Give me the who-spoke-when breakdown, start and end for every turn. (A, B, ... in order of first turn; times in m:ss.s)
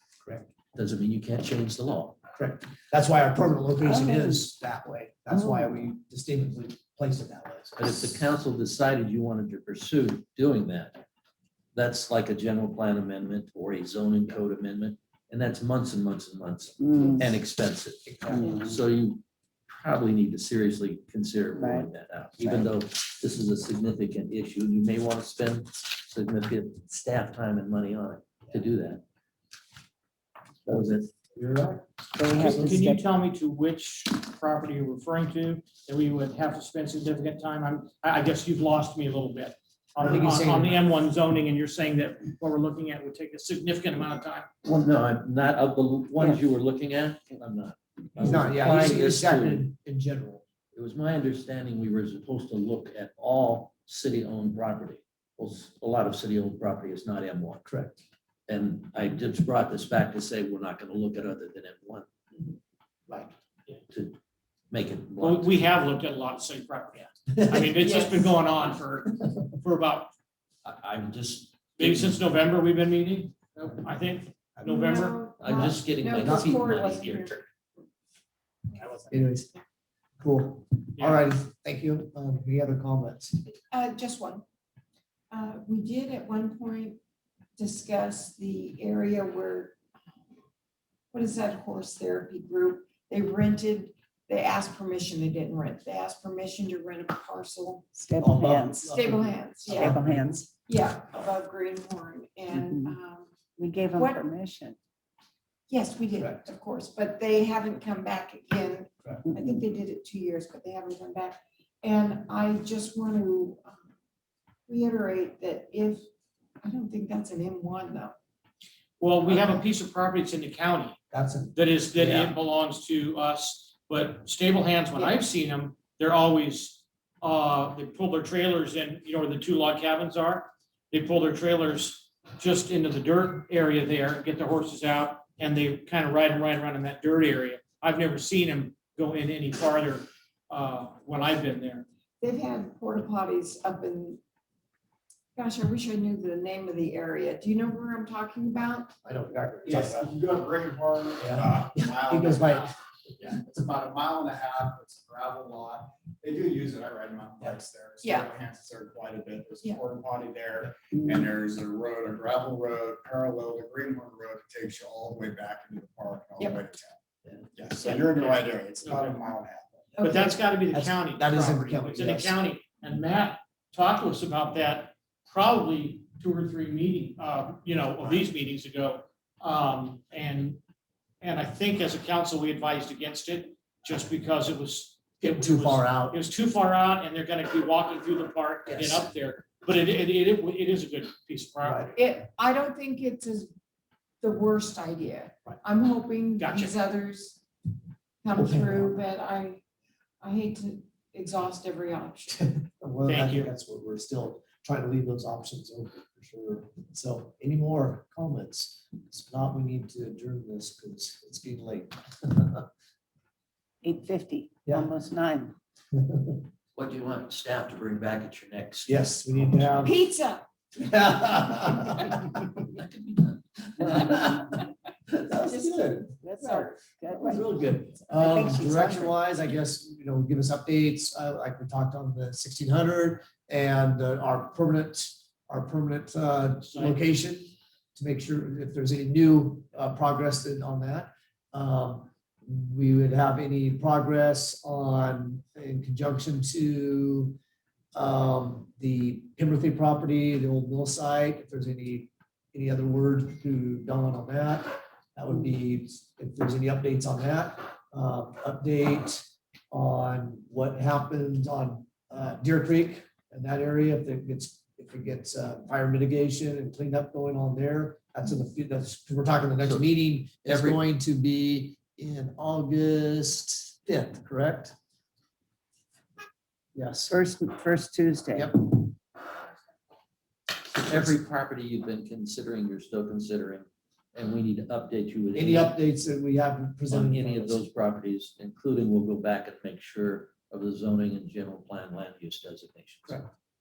0:00.2-0:00.5 A
0:00.7-0:02.2 B
0:02.4-0:08.1 A
0:03.9-0:04.3 C
0:07.8-0:11.0 B
0:11.7-0:29.0 B
0:16.8-0:17.2 C
0:18.1-0:18.4 A
0:18.3-0:18.8 C
0:21.5-0:22.7 C
0:30.7-0:31.1 B
0:31.4-0:31.8 A
0:32.2-0:33.0 C
0:32.3-0:44.5 D
0:32.4-0:32.8 A
0:40.0-0:40.8 A
0:44.6-0:49.7 B
0:48.2-0:50.4 A
0:50.7-0:57.6 B
0:57.6-0:58.0 A
0:58.5-1:02.1 B
1:03.9-1:04.2 B
1:04.7-1:05.6 B
1:05.2-1:10.1 D
1:07.8-1:08.3 E
1:10.6-1:12.2 B
1:11.8-1:15.2 D
1:14.6-1:14.9 A
1:14.6-1:17.5 E
1:15.4-1:17.4 B
1:16.2-1:16.6 A
1:18.8-1:19.0 E
1:19.1-1:19.5 A
1:20.2-1:23.4 A
1:23.7-1:24.4 E
1:25.3-1:27.0 E
1:27.6-1:29.8 E
1:31.1-1:37.9 E
1:37.9-1:39.0 C
1:38.2-1:40.4 A
1:38.8-1:40.0 E
1:39.7-1:40.5 C
1:40.6-1:44.2 E
1:42.5-1:43.0 C
1:43.6-1:44.8 C
1:45.7-1:53.9 E
1:46.2-1:46.5 A
1:49.2-1:49.6 C
1:54.7-1:56.1 E
1:56.6-1:58.2 E
1:59.0-2:01.0 D
2:01.1-2:02.4 A
2:01.5-2:21.8 D
2:05.0-2:05.2 E
2:22.2-2:24.2 E
2:25.4-2:29.0 E
2:29.0-2:30.1 A
2:29.6-2:47.0 F
2:31.2-2:32.7 A
2:38.0-2:38.3 E
2:47.5-2:49.9 F
2:47.9-2:49.3 D
2:50.0-2:50.4 E
2:50.0-3:00.6 D
2:50.6-2:52.4 A
3:01.2-3:12.0 D
3:05.2-3:06.2 A
3:08.7-3:09.1 A
3:11.6-3:11.9 A
3:12.0-3:13.5 E
3:14.2-3:17.4 E
3:16.4-3:16.8 D
3:18.2-3:19.6 E
3:18.3-3:19.0 A
3:20.2-3:22.4 E
3:22.3-3:32.7 A
3:23.0-3:23.5 D
3:33.8-3:35.6 C
3:34.7-3:34.9 A
3:35.9-3:36.4 A
3:36.8-3:40.0 B
3:38.9-3:40.0 A
3:39.8-3:40.5 E
3:40.8-3:42.4 A
3:42.7-3:44.4 B
3:43.8-3:44.4 A
3:45.1-4:07.4 A
3:46.1-3:47.6 C
3:48.1-3:49.1 C
3:56.6-3:57.0 D
4:08.0-4:34.8 A
4:30.4-4:30.8 B
4:36.8-4:37.1 A
4:37.1-4:38.5 C
4:38.3-4:38.6 A
4:40.8-4:45.8 B
4:45.3-4:47.6 A
4:46.9-4:53.2 B